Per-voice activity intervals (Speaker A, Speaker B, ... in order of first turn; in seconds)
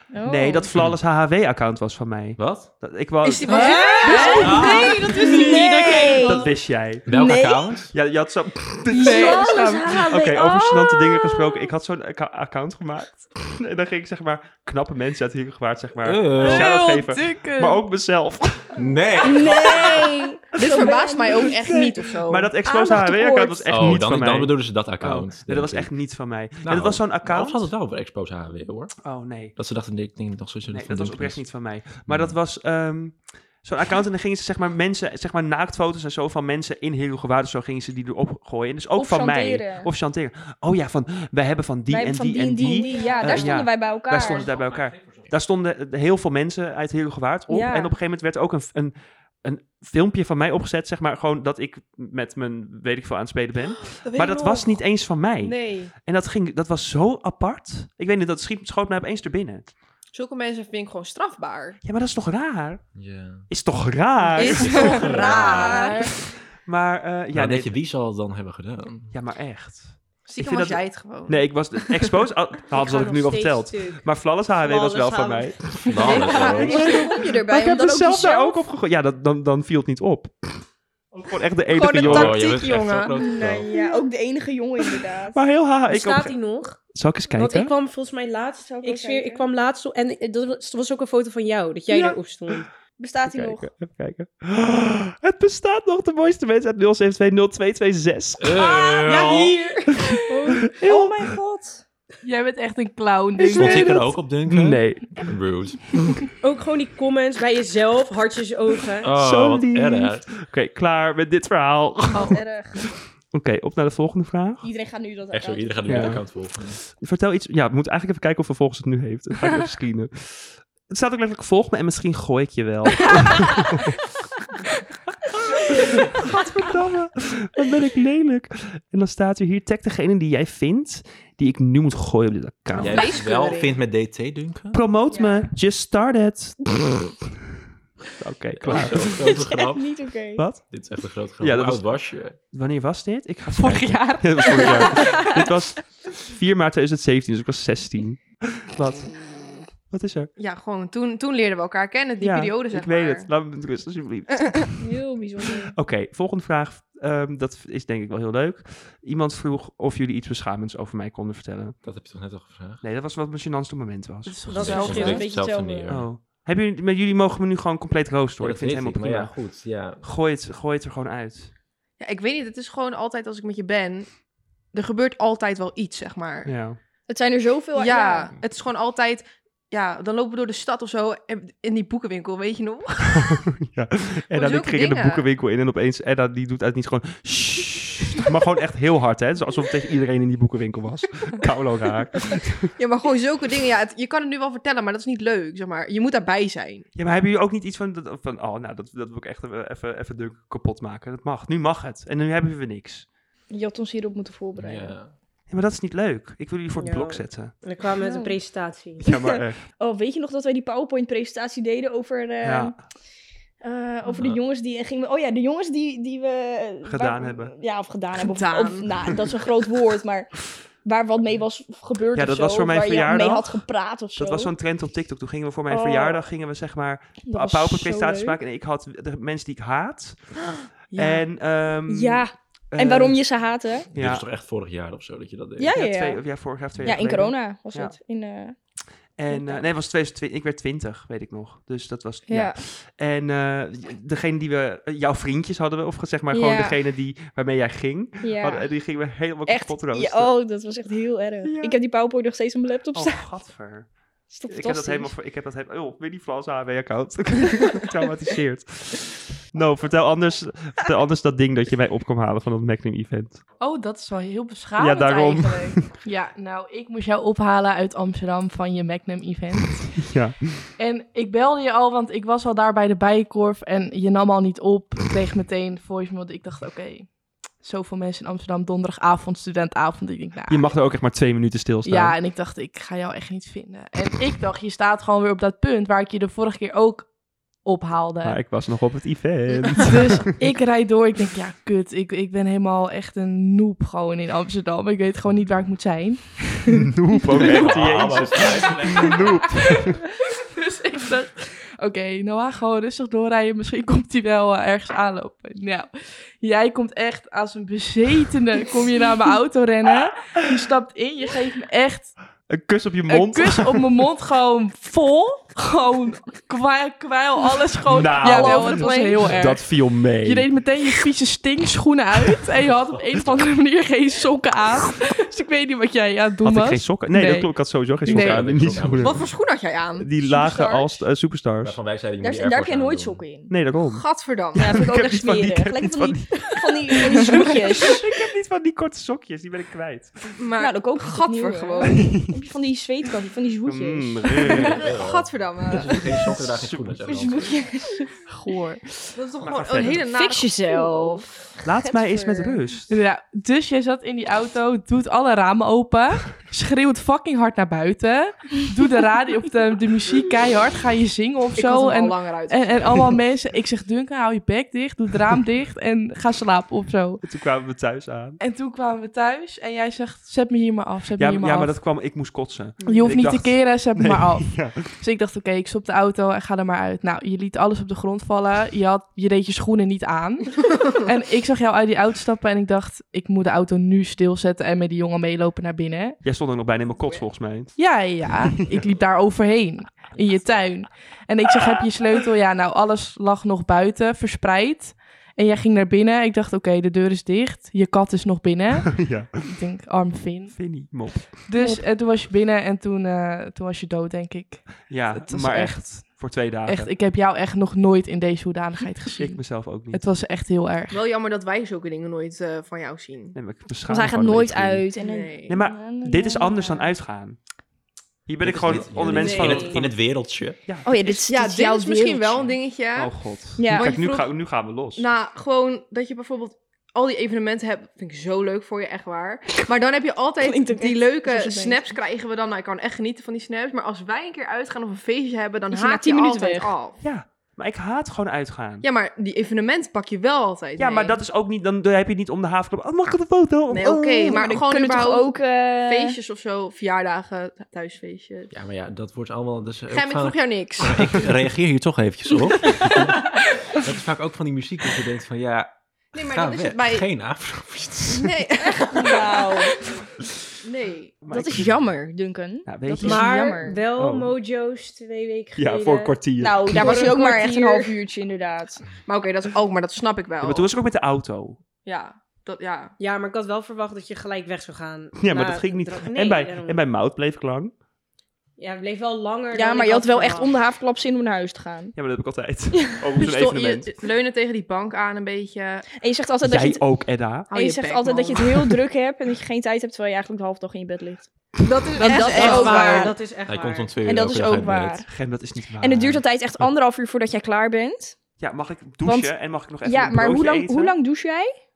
Speaker A: 0.1-0.7, 4.0-6.5, 7.1-7.8, 8.9-11.7, 19.2-21.7, 22.6-23.7, 39.0-39.9, 41.9-44.5, 47.5-48.0, 64.6-66.1, 76.0-78.6, 83.2-85.4, 88.6-89.5, 93.0-93.7, 100.3-101.8, 112.2-112.8, 114.6-116.2, 139.1-140.4, 154.8-155.7, 164.7-165.9, 177.1-178.3, 203.5-205.0, 208.0-208.4, 209.8-212.7, 213.6-224.5, 225.7-226.2, 227.2-228.4, 231.9-233.9, 235.6-236.2, 236.8-238.6, 239.3-239.7, 242.3-242.6, 246.3-246.8, 248.2-248.7, 249.5-253.2, 254.3-255.1, 318.2-319.2, 330.3-330.9, 332.2-333.5, 334.6-338.0, 340.6-344.8, 347.0-348.1, 349.9-352.6, 401.6-401.8, 413.9-416.9, 420.8-422.5, 423.6-424.0, 430.4-431.9, 435.7-436.7, 444.2-446.2, 458.9-459.7, 461.3-463.8, 466.4-468.8, 479.5-481.9, 486.0-486.9, 487.5-491.3, 492.0-493.1, 494.0-495.1, 495.8-498.2, 499.0-501.5
Speaker B: 0.2-3.8, 6.2-7.1, 7.9-18.8, 21.4-27.7, 29.0-29.6, 30.7-59.7, 61.8-62.9, 63.5-65.3, 66.6-67.7, 69.1-75.8, 76.6-82.4, 85.3-86.4, 86.9-87.7, 93.3-98.6, 100.7-101.3, 103.6-103.9, 104.5-105.3, 109.2-112.4, 113.3-114.7, 115.8-116.2, 116.9-124.0, 125.7-133.1, 134.7-136.9, 138.2-139.3, 140.4-140.7, 141.4-149.2, 149.9-150.3, 152.2-154.8, 155.7-161.8, 162.8-164.9, 165.9-171.5, 176.4-176.8, 183.2-192.7, 197.0-203.1, 205.5-207.5, 209.0-209.6, 212.4-212.8, 216.8-217.5, 222.1-223.7, 224.2-230.3, 230.9-233.2, 233.9-234.2, 235.7-237.9, 239.2-250.3, 251.4-251.8, 252.9-253.9, 254.5-263.4, 264.8-265.9, 270.0-270.4, 280.5-282.2, 288.2-290.3, 296.7-300.0, 312.5-314.0, 317.9-320.5, 326.4-329.2, 330.0-331.8, 333.5-340.3, 341.9-342.4, 343.7-344.8, 346.4-347.0, 349.4-350.0, 351.6-352.9, 367.2-368.4, 371.2-374.8, 386.2-388.0, 398.9-399.3, 400.6-401.5, 404.9-406.9, 409.2-410.0, 413.4-414.9, 415.5-417.4, 418.3-420.9, 422.9-425.1, 437.0-438.9, 440.8-444.6, 461.2-461.7, 462.7-463.3, 463.9-464.3, 465.6-466.7, 470.4-471.6, 475.2-477.7, 481.9-483.9, 486.4-487.5, 495.1-496.2, 498.4-500.9
Speaker C: 2.4-2.7, 4.4-4.8, 7.1-8.0, 16.0-16.7, 18.8-20.1, 23.7-25.9, 26.6-29.0, 29.6-32.4, 44.1-45.3, 63.0-63.5, 64.5-65.9, 67.3-69.2, 75.8-77.0, 82.0-83.7, 98.4-99.6, 103.5-106.1, 109.0-110.3, 115.3-116.8, 132.8-134.8, 138.6-140.0, 140.6-142.4, 161.8-162.8, 164.5-166.2, 168.4-170.0, 204.6-205.1, 214.1-214.4, 233.9-235.8, 297.3-299.7, 323.1-323.5, 328.0-329.3, 331.6-333.2, 344.5-347.6, 418.4-420.6, 448.5-455.7, 456.2-458.4, 493.4-495.1
Speaker D: 3.2-6.4, 20.6-22.5, 54.0-54.8, 55.4-55.9, 60.1-61.8, 64.4-66.1, 70.3-72.1, 76.1-76.9, 81.7-83.3, 132.7-133.8, 150.4-153.3, 172.0-174.2, 174.7-176.5, 177.8-183.4, 184.3-185.2, 192.8-196.9, 218.2-219.2, 230.9-231.2, 329.0-330.1, 333.9-334.8, 340.4-342.1, 344.7-346.4, 349.1-351.2, 361.6-363.2, 410.9-413.4, 415.0-415.6, 421.0-437.0, 438.8-441.2, 443.7-448.5, 449.9-451.3, 456.1-457.1, 458.1-459.4, 460.6-461.2, 466.7-468.0, 469.1-470.7, 471.9-472.9, 483.2-485.9, 487.5-488.8, 491.6-493.1
Speaker E: 3.5-6.5, 42.8-43.3, 65.3-65.8, 72.7-74.1, 74.6-76.6, 85.9-86.8, 87.3-92.7, 98.6-100.2, 106.4-109.1, 164.5-165.6, 206.8-209.1, 419.1-419.8, 463.0-466.2, 473.0-476.8, 478.6-480.5, 492.0-493.9
Speaker F: 3.5-5.5, 8.9-9.9, 16.4-17.8, 102.2-104.1, 143.5-145.3, 164.3-165.2, 263.6-270.0, 270.8-280.7, 281.9-287.1, 287.6-288.4, 289.8-296.9, 298.9-305.9, 306.4-312.2, 313.1-328.5, 348.3-348.8, 352.9-367.2, 368.4-371.8, 372.8-386.2, 387.8-400.8, 401.5-411.0